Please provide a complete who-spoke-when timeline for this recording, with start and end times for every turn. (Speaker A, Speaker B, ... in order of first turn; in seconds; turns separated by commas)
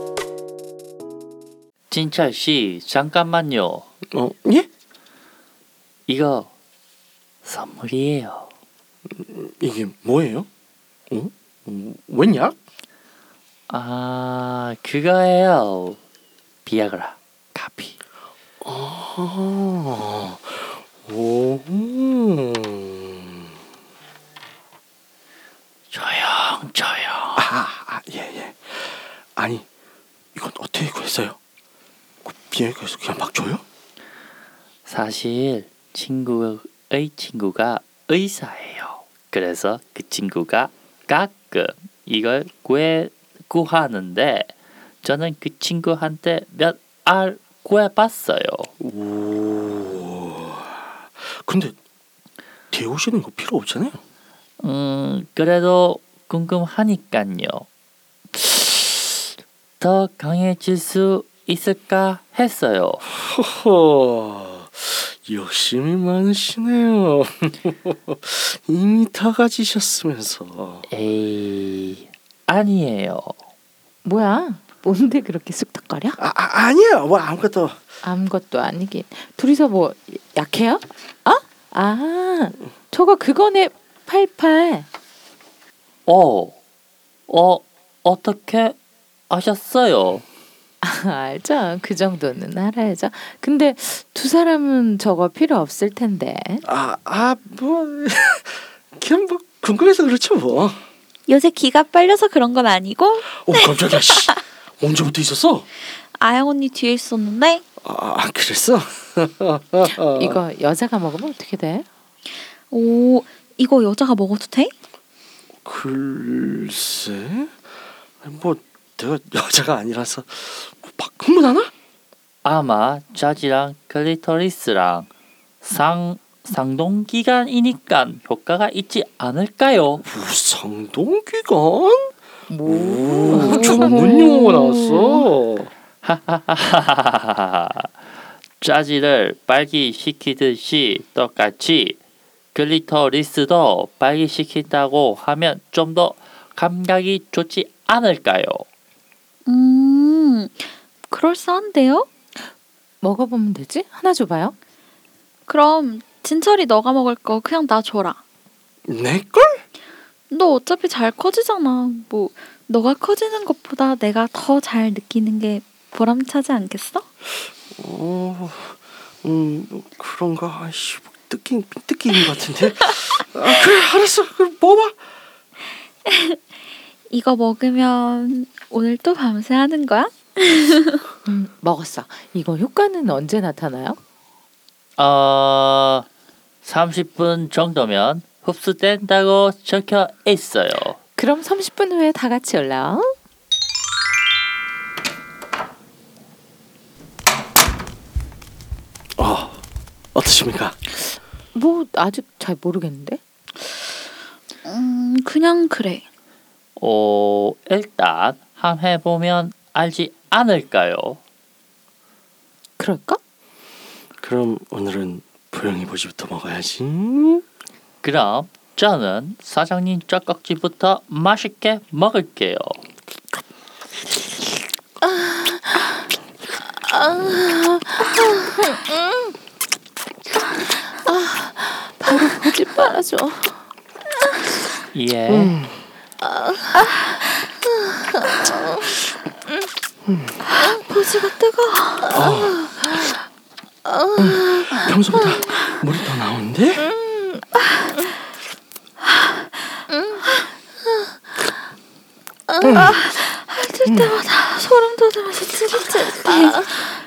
Speaker A: 1.9-3.9, Speaker B: 4.1-4.7, Speaker A: 6.1-6.5, Speaker A: 7.4-8.5, Speaker B: 9.1-10.5, Speaker B: 11.1-12.5, Speaker A: 13.7-16.0, Speaker A: 16.6-17.9, Speaker B: 18.6-23.5, Speaker A: 25.9-27.5, Speaker B: 27.3-29.6, Speaker B: 30.3-31.4, Speaker B: 32.2-33.6, Speaker A: 34.9-44.5, Speaker A: 45.0-48.7, Speaker B: 48.8-51.7, Speaker B: 52.7-54.0, Speaker A: 54.6-57.6, Speaker A: 58.3-59.3, Speaker A: 59.8-63.1, Speaker B: 63.1-70.8, Speaker A: 70.9-73.3, Speaker C: 74.0-76.2, Speaker B: 76.2-77.8, Speaker C: 78.0-84.9, Speaker A: 86.0-86.5, Speaker A: 87.3-88.8, Speaker A: 89.3-90.2, Speaker C: 90.8-96.6, Speaker B: 96.6-100.8, Speaker D: 101.3-104.4, Speaker B: 103.3-105.7, Speaker D: 106.1-107.6, Speaker B: 107.8-110.4, Speaker C: 110.2-111.8, Speaker D: 112.7-114.7, Speaker B: 115.6-117.5, Speaker B: 118.2-121.7, Speaker A: 122.4-125.1, Speaker A: 125.6-130.0, Speaker B: 130.0-132.1, Speaker C: 132.5-134.1, Speaker B: 132.6-135.7, Speaker D: 133.4-134.9, Speaker A: 136.0-137.9, Speaker A: 138.6-142.0, Speaker A: 142.5-148.7, Speaker D: 149.4-152.1, Speaker C: 153.0-154.6, Speaker D: 155.5-158.2, Speaker B: 158.9-159.6, Speaker D: 160.3-167.1, Speaker B: 167.7-174.9, Speaker D: 176.1-176.4, Speaker D: 177.1-181.0, Speaker C: 181.2-184.0, Speaker A: 185.0-186.1, Speaker A: 186.6-191.0, Speaker C: 191.2-193.1, Speaker B: 199.2-199.6, Speaker B: 200.1-200.8, Speaker C: 201.5-203.2, Speaker D: 204.6-206.0, Speaker A: 206.8-211.2, Speaker C: 212.8-213.2, Speaker B: 214.2-217.4, Speaker A: 218.0-222.8, Speaker C: 227.5-228.1, Speaker C: 231.0-233.6, Speaker A: 234.9-235.5, Speaker B: 235.3-235.8, Speaker B: 240.1-240.4, Speaker D: 240.5-242.2, Speaker B: 242.1-242.7, Speaker B: 244.2-246.9, Speaker B: 252.6-253.0, Speaker D: 252.8-256.9, Speaker B: 253.8-254.2